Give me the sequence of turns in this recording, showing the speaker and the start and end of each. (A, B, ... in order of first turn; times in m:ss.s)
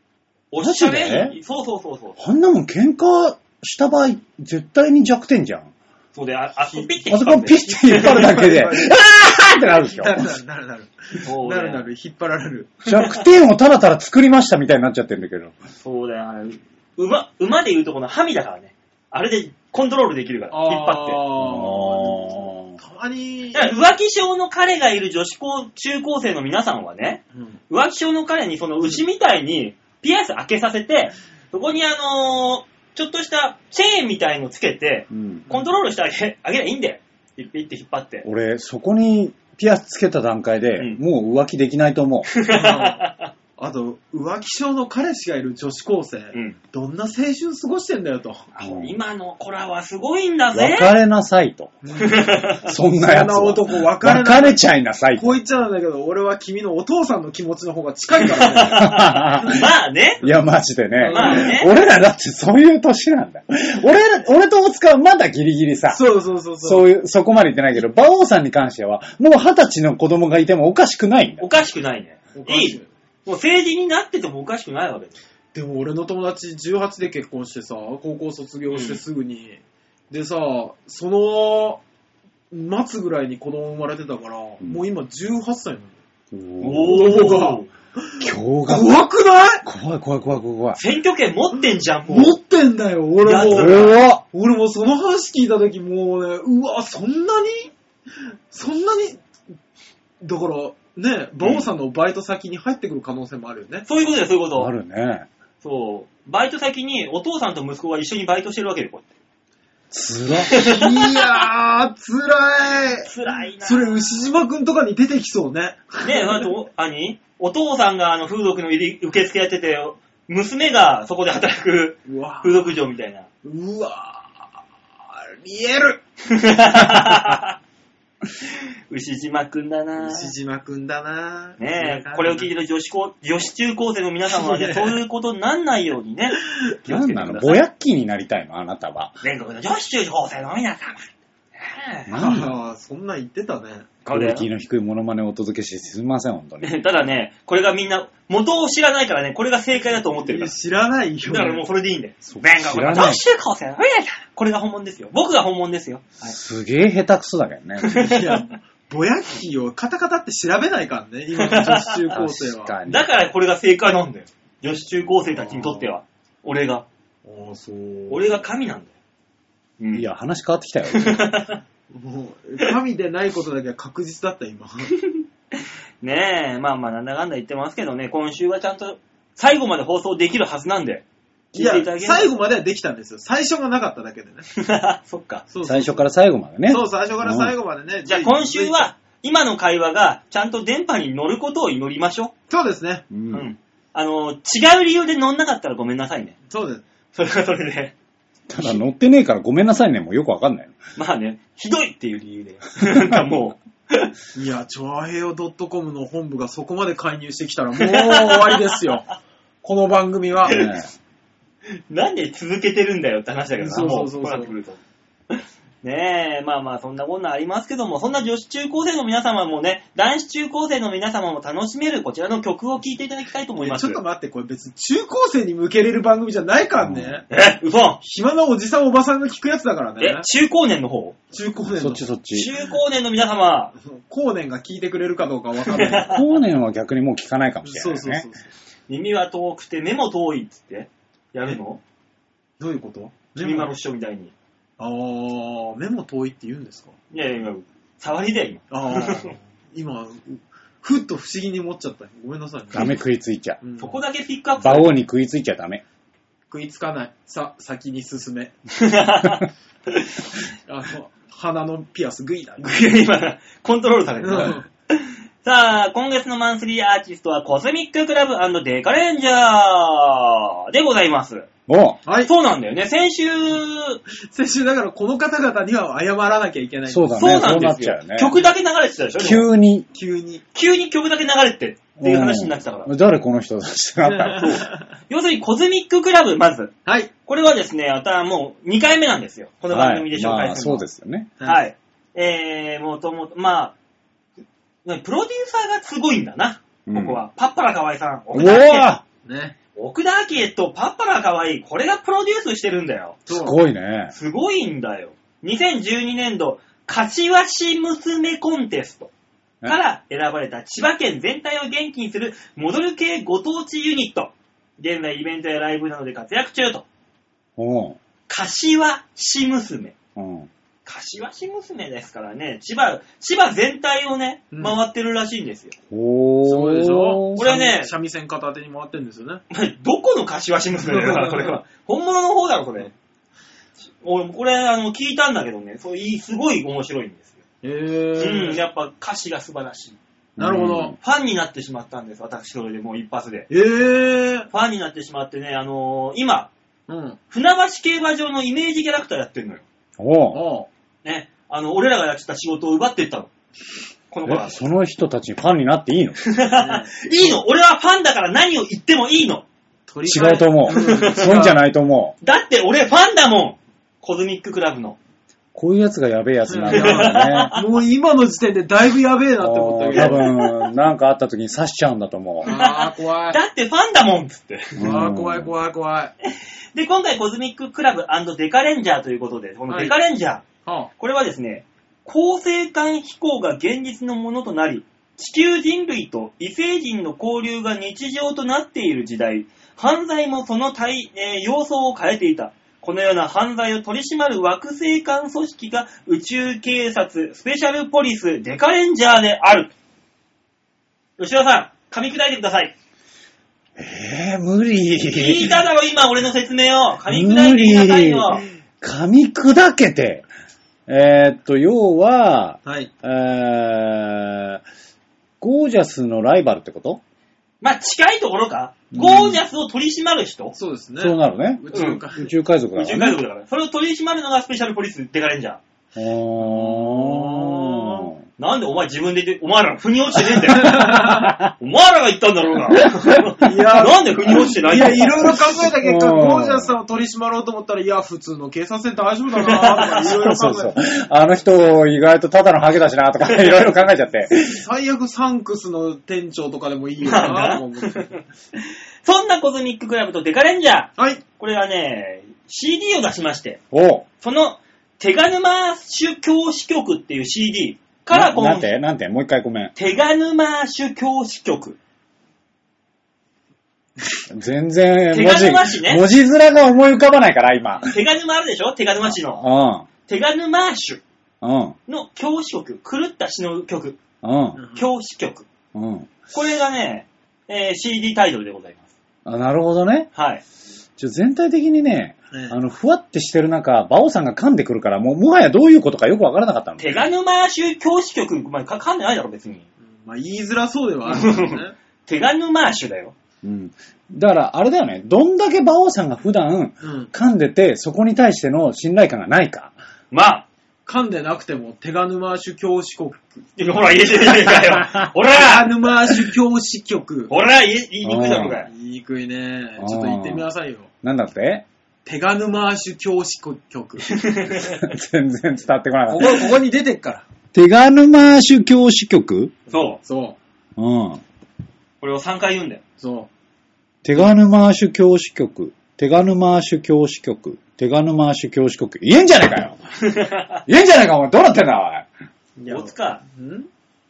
0:00.5-0:02.2 A
0:00.6-0:01.4 B
0:02.2-0:05.7 B
0:06.1-0:08.4 A
0:07.0-0:10.3 B
0:07.8-0:08.9 C
0:09.7-0:12.8 C
0:11.2-0:11.9 A
0:12.9-0:15.6 B
0:15.8-0:21.2 A
0:20.5-0:23.7 C
0:21.4-0:22.8 B
0:23.5-0:38.2 A
0:35.1-0:35.5 B
0:38.2-0:42.3 B
0:42.3-0:43.3 A
0:42.5-0:43.0 C
0:43.6-0:48.5 C
0:48.6-0:50.9 A
0:48.6-0:49.0 B
0:50.5-0:51.8 B
0:51.8-0:54.6 C
0:52.0-0:52.7 A
0:52.6-0:55.4 B
0:55.1-0:59.6 C
0:58.3-1:00.2 A
0:58.7-0:59.6 B
1:00.2-1:06.0 B
1:01.0-1:01.5 C
1:01.1-1:01.7 A
1:05.9-1:06.9 C
1:06.6-1:11.5 B
1:11.4-1:15.2 A
1:12.4-1:12.9 C
1:15.5-1:19.6 C
1:18.7-1:19.0 A
1:20.1-1:21.8 C
1:22.5-1:26.0 C
1:26.3-1:27.3 B
1:26.6-1:27.7 A
1:26.8-1:29.6 C
1:28.2-1:29.0 B
1:29.6-1:30.8 B
1:30.8-1:32.4 A
1:32.1-1:37.7 C
1:33.2-1:34.0 A
1:33.3-1:34.2 B
1:38.5-1:39.2 C
1:40.2-1:43.8 C
1:41.4-1:41.7 A
1:43.9-1:44.7 A
1:44.6-1:45.3 B
1:45.6-1:49.1 A
1:49.9-1:50.5 B
1:50.5-1:51.2 A
1:50.5-1:53.1 C
1:53.0-1:54.0 A
1:53.6-1:56.5 C
1:56.0-2:03.3 A
2:02.1-2:02.7 C
2:03.4-2:04.4 C
2:05.1-2:06.0 C
2:06.3-2:07.6 A
2:08.9-2:10.3 A
2:10.0-2:12.5 C
2:11.6-2:17.6 A
2:14.3-2:15.0 C
2:16.9-2:19.2 B
2:19.2-2:22.1 A
2:22.1-2:22.5 B
2:22.2-2:24.0 C
2:24.0-2:24.5 A
2:24.1-2:26.8 B
2:26.6-2:30.6 A
2:30.0-2:31.6 C
2:31.3-2:36.4 A
2:32.2-2:33.2 B
2:36.2-2:38.1 B
2:37.9-2:38.2 A
2:38.0-2:42.7 C
2:41.4-2:42.0 A
2:42.1-2:43.1 B
2:42.9-2:46.9 A
2:45.3-2:45.9 C
2:47.2-2:48.4 C
2:48.1-2:48.9 A
2:49.8-2:50.1 A
2:49.9-2:51.4 B
2:50.9-2:51.6 A
2:51.9-2:54.9 C
2:56.0-3:02.3 A
3:01.6-3:04.4 C
3:04.6-3:05.4 A
3:05.5-3:06.1 C
3:05.6-3:07.5 B
3:06.7-3:08.9 C
3:08.1-3:12.3 A
3:12.5-3:13.1 C
3:13.1-3:13.5 B
3:13.3-3:16.4 A
3:16.5-3:16.8 C
3:17.1-3:17.9 A
3:18.5-3:20.8 B
3:21.0-3:24.1 A
3:24.4-3:30.6 C
3:27.8-3:28.6 A
3:30.5-3:30.9 B
3:31.7-3:34.8 A
3:33.6-3:34.5 C
3:35.3-3:44.0 A
3:43.6-3:47.2 C
3:46.8-3:47.2 B
3:47.3-3:48.0 A
3:48.0-3:50.3 C
3:50.0-3:51.2 A
3:51.3-3:52.1 C
3:51.8-3:52.5 B
3:52.3-3:53.7 A
3:53.8-3:56.2 C
3:55.8-3:56.1 A
3:56.1-3:58.3 B
3:57.6-3:58.5 C
3:58.9-4:01.8 A
4:02.6-4:03.7 C
4:03.4-4:04.3 A
4:04.8-4:07.0 C
4:07.1-4:09.3 A
4:08.7-4:13.0 C
4:12.7-4:13.6 B
4:13.6-4:14.0 C
4:13.8-4:14.9 A
4:14.6-4:15.8 B
4:16.5-4:18.6 C
4:18.8-4:20.2 A
4:20.7-4:22.9 C
4:22.6-4:31.5 A
4:24.2-4:24.7 C
4:31.7-4:32.0 B
4:32.1-4:32.3 C
4:32.2-4:34.0 A
4:34.2-4:37.5 C
4:36.9-4:38.4 B
4:37.2-4:39.5 A
4:39.2-4:39.9 B
4:39.9-4:40.4 C
4:40.6-4:42.9 A
4:42.0-4:44.6 B
4:44.0-4:44.8 C
4:45.1-4:46.7 A
4:46.9-4:47.1 C
4:47.3-4:50.9 A
4:49.7-4:51.3 B
4:51.4-4:53.8 A
4:54.8-4:58.9 A
4:56.9-4:57.2 B
4:58.3-4:59.0 B
4:59.2-4:59.6 C
4:59.8-5:03.3 A
5:03.3-5:03.6 C
5:03.3-5:04.1 B
5:04.1-5:09.1 A
5:09.6-5:16.9 A
5:17.6-5:18.0 B
5:18.3-5:19.9 A
5:20.2-5:20.5 B
5:20.9-5:25.8 A
5:24.5-5:24.8 C
5:25.9-5:27.4 B
5:26.4-5:29.4 C
5:27.4-5:27.9 A
5:29.5-5:32.9 A
5:30.8-5:31.6 C
5:34.0-5:37.3 A
5:37.6-5:38.6 C
5:38.2-5:40.0 A
5:40.4-5:41.0 B
5:40.4-5:41.0 C
5:41.0-5:43.5 A
5:43.5-5:44.5 C
5:44.5-5:46.5 A
5:46.9-5:47.2 C
5:47.3-5:49.6 A
5:50.0-5:50.4 B
5:50.3-5:50.7 C
5:51.0-5:53.3 A
5:54.1-5:54.6 A
5:54.3-5:56.3 B
5:56.3-5:59.4 A
5:56.6-5:57.4 C
5:59.9-6:01.6 C
6:00.1-6:02.1 B
6:00.7-6:01.2 A
6:02.2-6:05.0 A
6:05.5-6:07.5 B
6:06.5-6:10.3 C
6:06.7-6:07.6 A
6:09.4-6:12.5 B
6:10.0-6:10.5 A
6:12.4-6:13.4 C
6:12.4-6:14.8 A
6:14.8-6:15.5 B
6:14.8-6:16.1 C
6:16.7-6:20.4 A
6:19.7-6:20.0 C
6:20.6-6:20.9 C
6:21.0-6:39.7 A
6:41.2-6:42.7 A
6:43.8-6:45.6 B
6:45.1-6:48.4 A
6:47.1-6:50.3 B
6:50.9-6:54.6 B
6:52.6-6:52.9 C
6:55.4-6:57.0 B
6:57.6-7:00.6 A
6:58.9-6:59.4 B
7:00.6-7:02.3 C
7:01.0-7:03.2 B
7:01.7-7:02.0 A
7:02.8-7:05.6 A
7:06.0-7:08.2 B
7:06.4-7:08.1 C
7:08.4-7:11.0 A
7:10.5-7:11.4 C
7:10.8-7:11.5 B
7:11.6-7:15.3 A
7:13.4-7:20.8 C
7:14.3-7:16.8 B
7:19.4-7:20.1 A
7:20.1-7:24.6 B
7:24.3-7:28.2 C
7:27.0-7:33.6 A
7:31.0-7:31.2 C
7:33.7-7:34.1 B
7:34.2-7:38.7 A
7:38.1-7:39.7 B
7:39.8-7:41.8 A
7:44.3-7:48.0 B
7:45.1-7:46.0 A
7:47.8-7:49.4 A
7:49.0-7:49.9 B
7:50.1-7:51.0 A
7:51.4-7:51.8 B
7:51.9-7:54.0 A
7:54.2-7:54.6 B
7:54.6-7:54.9 C
7:54.8-7:55.5 A
7:55.7-7:56.1 B
7:56.3-7:58.8 A
7:59.2-8:00.1 B
8:00.1-8:00.4 A
8:01.0-8:07.1 B
8:02.3-8:02.6 C
8:06.8-8:09.7 A
8:09.8-8:11.7 C
8:11.1-8:13.1 A
8:13.4-8:19.7 B
8:16.8-8:17.1 C
8:20.1-8:20.5 A
8:20.9-8:23.5 C
8:23.6-8:25.8 A
8:25.3-8:27.3 C
8:27.3-8:28.7 A
8:28.0-8:28.6 B
8:28.7-8:30.9 C
8:29.8-8:30.5 B
8:31.0-8:31.7 B
8:32.0-8:34.2 C
8:34.1-8:34.9 A
8:34.6-8:36.5 B
8:36.1-8:37.3 C
8:37.5-8:39.6 B
8:39.7-8:40.0 A
8:39.7-8:40.4 C
8:40.8-8:41.2 B
8:42.0-8:42.8 A
8:43.0-8:43.3 C
8:44.0-8:49.8 B
8:50.0-8:50.6 A
8:50.7-8:52.1 B
8:52.6-8:53.7 C
8:52.7-8:53.2 A